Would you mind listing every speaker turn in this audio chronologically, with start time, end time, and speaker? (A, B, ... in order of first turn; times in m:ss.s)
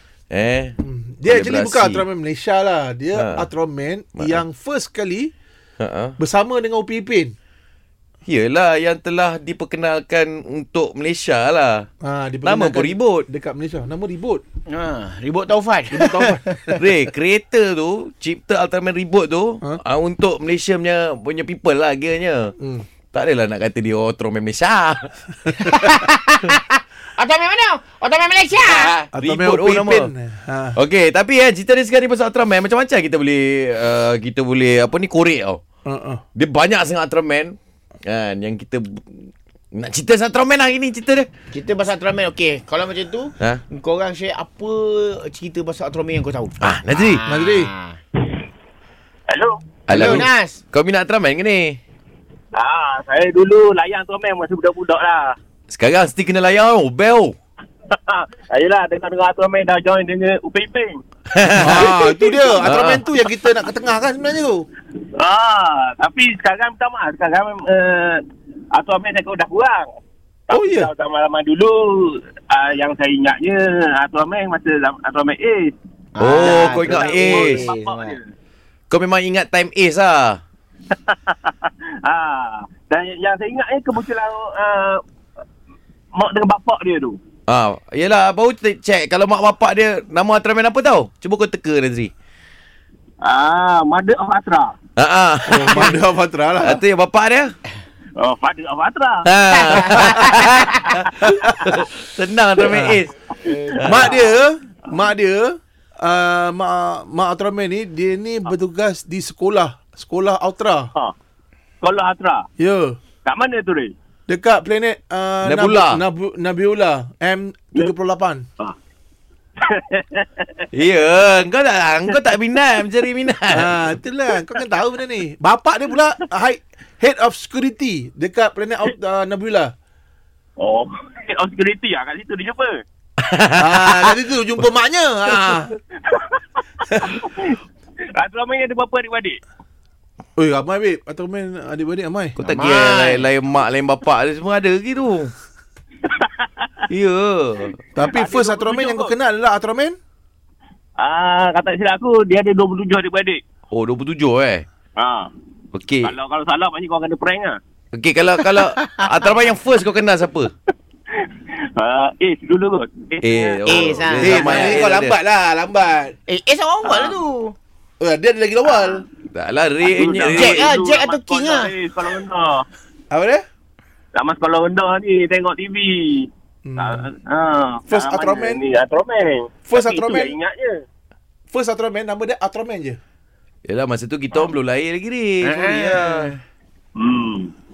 0:00.3-0:02.0 A
0:00.8-0:05.3 B
0:03.1-0:03.5 A
0:05.8-0:06.2 A
0:06.2-0:07.3 B
0:08.2-0:11.9 A
0:12.0-0:14.4 B
0:12.4-0:13.3 A
0:14.7-0:16.8 C
0:15.9-0:16.4 B
0:16.7-0:22.5 A
0:22.6-0:22.8 B
0:23.1-0:25.1 A
0:25.5-0:29.0 C
0:28.6-0:30.1 A
0:29.1-0:30.8 B
0:30.8-0:35.6 A
0:35.8-0:36.2 B
0:36.3-0:41.3 A
0:41.5-0:48.0 C
0:46.6-0:47.2 A
0:47.3-0:47.7 B
0:49.3-0:49.6 D
0:49.9-0:51.8 A
0:49.9-0:50.2 B
0:49.9-0:50.6 C
0:52.5-0:55.4 D
0:55.7-0:57.4 A
0:57.9-1:01.0 D
1:01.3-1:01.9 A
1:01.6-1:04.7 B
1:01.9-1:02.6 D
1:02.6-1:03.0 A
1:05.1-1:09.9 D
1:10.5-1:15.7 D
1:10.5-1:10.9 B
1:16.2-1:18.2 C
1:16.2-1:17.7 A
1:16.4-1:18.3 D
1:18.9-1:20.4 A
1:20.9-1:25.0 D
1:26.1-1:27.2 D
1:27.5-1:32.1 A
1:33.2-1:34.8 D
1:35.0-1:36.0 A
1:35.5-1:36.8 B
1:36.6-1:37.5 A
1:38.2-1:40.4 D
1:39.2-1:43.2 A
1:41.2-1:41.7 B
1:42.7-1:43.0 B
1:43.4-1:44.2 C
1:43.5-1:44.3 D
1:43.8-1:44.1 A
1:43.8-1:50.9 B
1:51.8-1:52.5 D
1:52.6-1:53.0 B
1:53.2-1:53.9 D
1:54.3-1:58.4 B
1:55.4-1:56.0 A
1:59.6-2:00.6 D
2:00.7-2:03.7 A
2:03.5-2:09.7 B
2:10.6-2:12.8 D
2:13.2-2:14.1 A
2:13.6-2:15.8 B
2:16.0-2:17.6 D
2:18.2-2:19.4 D
2:20.4-2:22.4 B
2:22.4-2:23.2 C
2:22.4-2:25.3 A
2:26.0-2:26.7 D
2:26.9-2:27.8 A
2:28.0-2:30.0 B
2:28.0-2:29.1 D
2:31.0-2:33.4 D
2:33.7-2:34.6 A
2:35.0-2:35.3 D
2:35.7-2:36.1 A
2:36.0-2:37.6 D
2:37.9-2:40.5 A
2:41.2-2:44.2 D
2:43.2-2:45.1 A
2:43.7-2:44.8 C
2:44.2-2:46.2 B
2:46.3-2:47.6 C
2:46.8-2:47.2 D
2:48.0-2:49.0 B
2:49.3-2:50.7 A
2:49.8-2:52.7 D
2:50.3-2:51.7 C
2:53.1-2:53.4 B
2:54.1-3:00.8 D
2:56.7-2:57.1 B
2:57.9-2:58.6 B
2:59.7-3:00.4 B
3:01.5-3:03.0 B
3:03.6-3:06.3 A
3:05.4-3:06.4 C
3:07.0-3:07.5 D